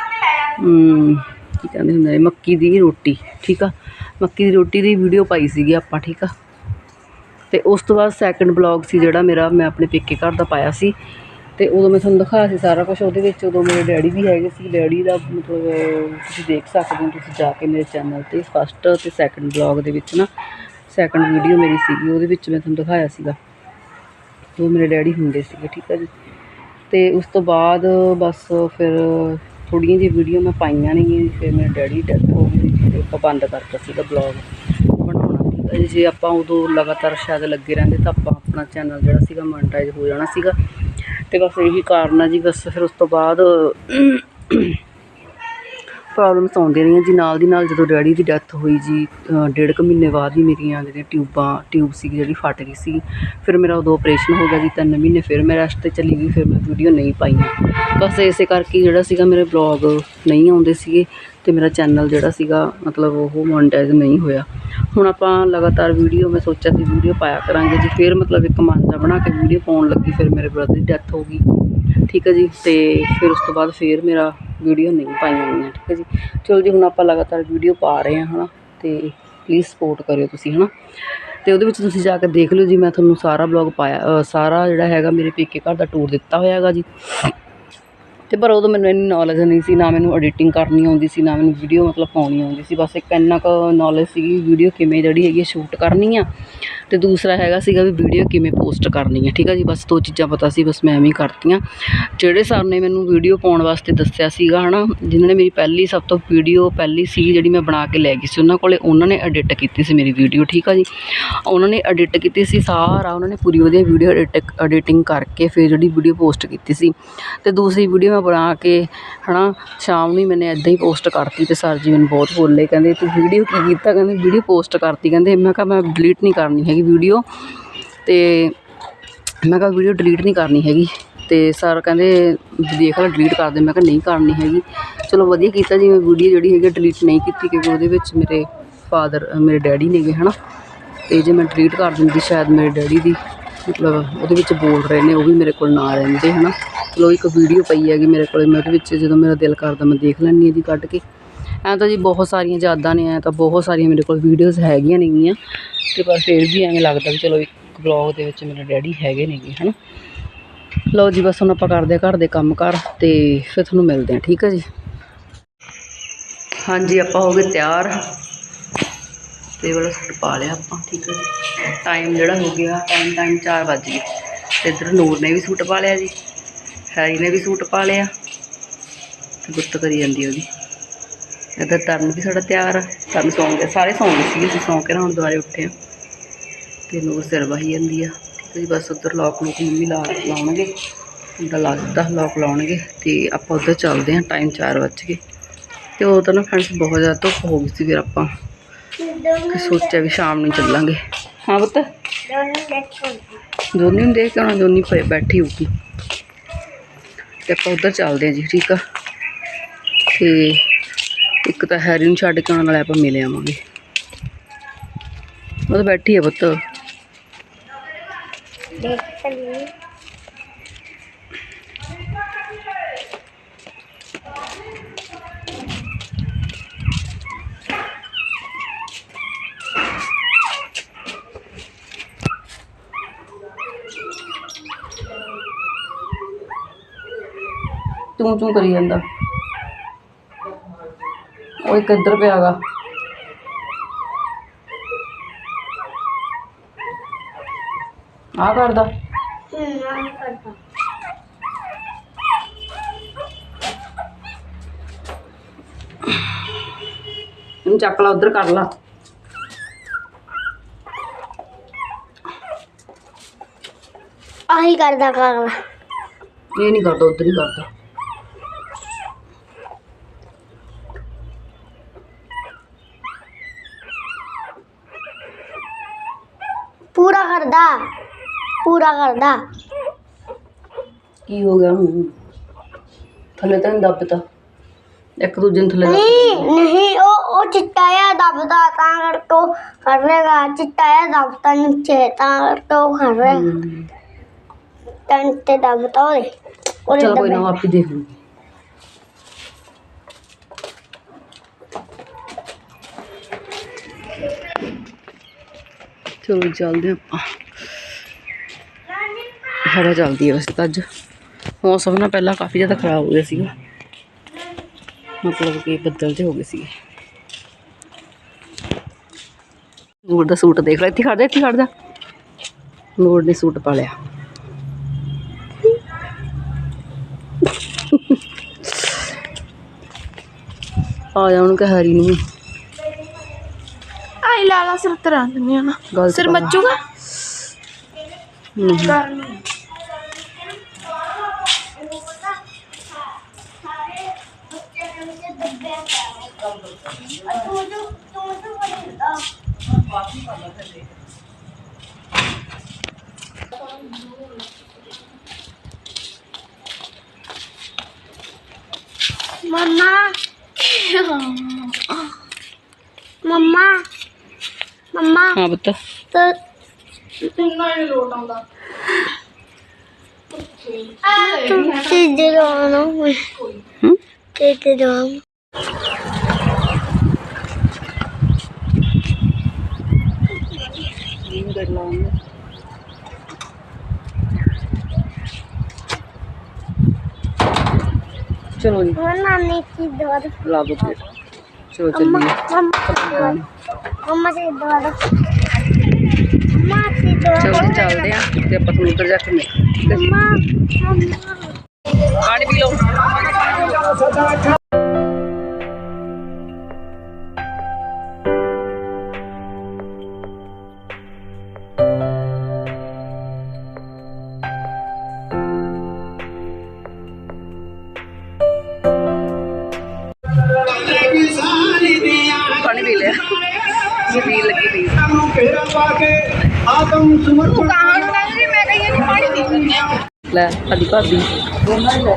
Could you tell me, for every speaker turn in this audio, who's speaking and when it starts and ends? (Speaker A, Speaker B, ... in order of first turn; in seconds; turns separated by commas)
Speaker A: 0.4-6.3, Speaker A: 7.5-10.9, Speaker A: 11.6-20.3, Speaker A: 20.9-23.4, Speaker A: 24.6-26.1, Speaker A: 26.9-40.6, Speaker A: 41.3-44.8, Speaker A: 46.1-71.4, Speaker A: 72.0-87.3, Speaker A: 88.3-127.4, Speaker A: 128.0-128.6, Speaker A: 129.4-140.3, Speaker A: 141.1-151.0, Speaker A: 151.6-155.4, Speaker A: 155.9-159.8, Speaker A: 160.9-164.7, Speaker A: 166.6-168.2, Speaker A: 169.6-174.1, Speaker A: 174.6-176.1, Speaker A: 176.9-178.1, Speaker A: 179.4-180.5, Speaker A: 181.6-185.7, Speaker A: 186.9-190.7, Speaker A: 191.4-195.2, Speaker A: 196.0-198.3, Speaker B: 199.0-199.9, Speaker A: 199.5-201.9, Speaker B: 202.3-203.4, Speaker A: 203.7-205.7, Speaker A: 207.4-208.8, Speaker A: 210.1-210.7, Speaker A: 211.4-213.6, Speaker A: 215.7-216.6, Speaker B: 218.8-219.7, Speaker A: 238.2-239.0, Speaker A: 241.6-242.6, Speaker A: 248.4-248.9, Speaker B: 249.5-250.6, Speaker A: 257.6-258.7, Speaker B: 264.5-265.6, Speaker A: 266.5-267.7, Speaker B: 276.9-277.9, Speaker B: 278.6-279.4, Speaker A: 281.3-282.1, Speaker A: 283.4-284.2, Speaker A: 285.2-286.5, Speaker B: 285.8-293.5, Speaker A: 293.2-293.9, Speaker B: 295.1-296.3, Speaker B: 296.9-297.5, Speaker A: 296.9-298.1, Speaker A: 306.2-307.4, Speaker A: 309.6-310.9, Speaker A: 311.6-313.5, Speaker A: 315.2-316.7, Speaker A: 320.1-321.7, Speaker A: 323.0-323.9, Speaker A: 327.7-328.9, Speaker A: 331.1-332.2, Speaker C: 334.2-336.8, Speaker A: 335.9-336.7, Speaker A: 338.6-339.0, Speaker C: 338.9-339.4, Speaker B: 340.2-342.4, Speaker B: 343.6-346.5, Speaker B: 347.2-349.2, Speaker B: 359.4-360.2, Speaker C: 360.6-362.1, Speaker B: 363.2-363.8, Speaker B: 364.9-365.4, Speaker A: 365.3-365.8, Speaker B: 366.1-366.4, Speaker C: 367.2-368.4, Speaker C: 370.5-371.0, Speaker B: 371.0-373.3, Speaker B: 374.4-375.2, Speaker A: 381.2-382.1, Speaker A: 388.5-389.0, Speaker B: 388.9-390.4, Speaker A: 390.4-391.1, Speaker A: 391.7-393.5, Speaker B: 391.9-393.3, Speaker B: 394.0-395.1, Speaker B: 396.4-397.9, Speaker A: 397.4-400.2, Speaker B: 399.9-401.5, Speaker A: 402.1-403.9, Speaker A: 422.1-425.6, Speaker C: 427.1-429.5, Speaker B: 427.6-429.4, Speaker A: 430.3-431.8